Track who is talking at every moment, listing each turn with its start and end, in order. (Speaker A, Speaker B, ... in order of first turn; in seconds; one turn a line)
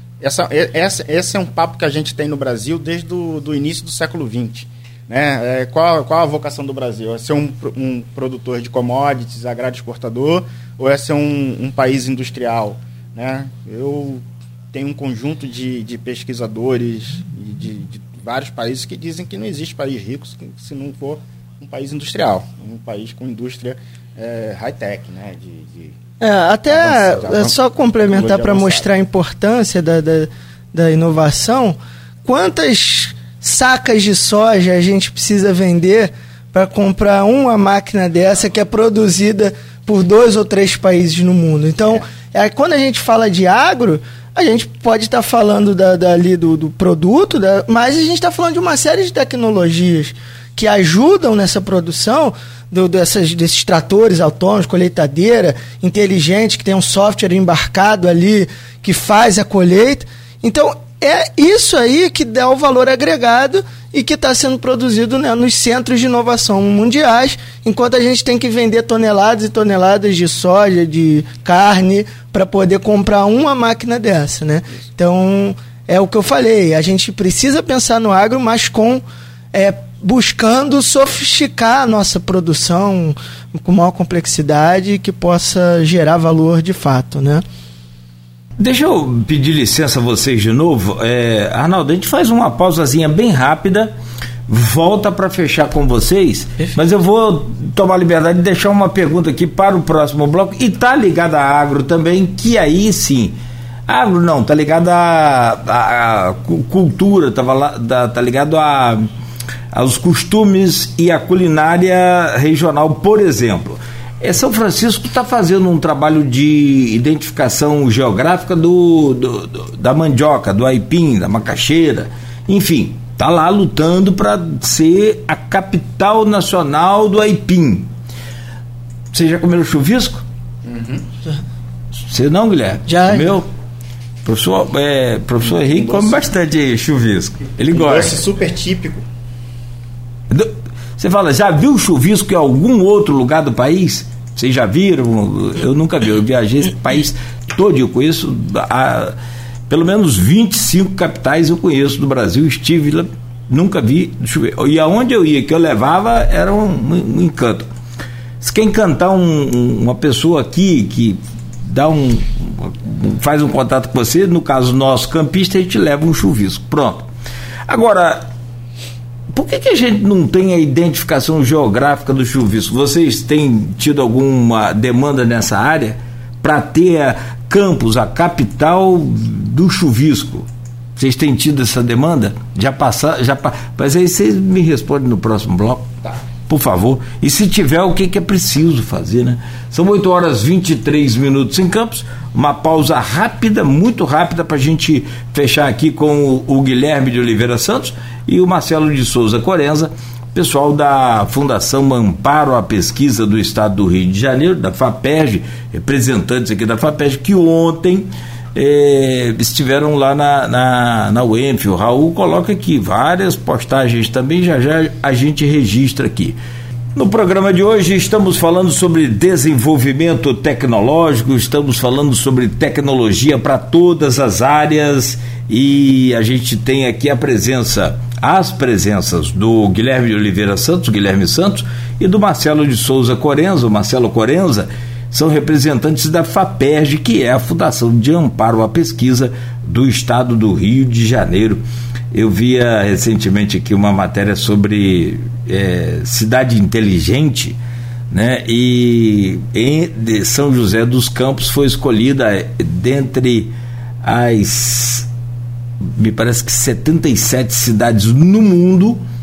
Speaker A: 0.2-26.0
Speaker B: 26.2-87.4
Speaker A: 26.7-28.9
Speaker C: 88.6-93.9
Speaker C: 94.5-103.3
Speaker C: 103.9-109.1
Speaker C: 109.7-127.9
Speaker C: 129.1-130.2
Speaker A: 130.6-131.1
Speaker C: 132.0-133.5
Speaker B: 132.9-133.3
Speaker C: 134.2-138.2
Speaker A: 135.4-136.3
Speaker A: 137.7-139.0
Speaker C: 140.3-149.2
Speaker C: 149.7-157.7
Speaker C: 158.4-167.1
Speaker C: 167.7-168.3
Speaker C: 169.3-216.4
Speaker C: 216.9-247.6
Speaker C: 248.1-255.1
Speaker C: 255.8-259.0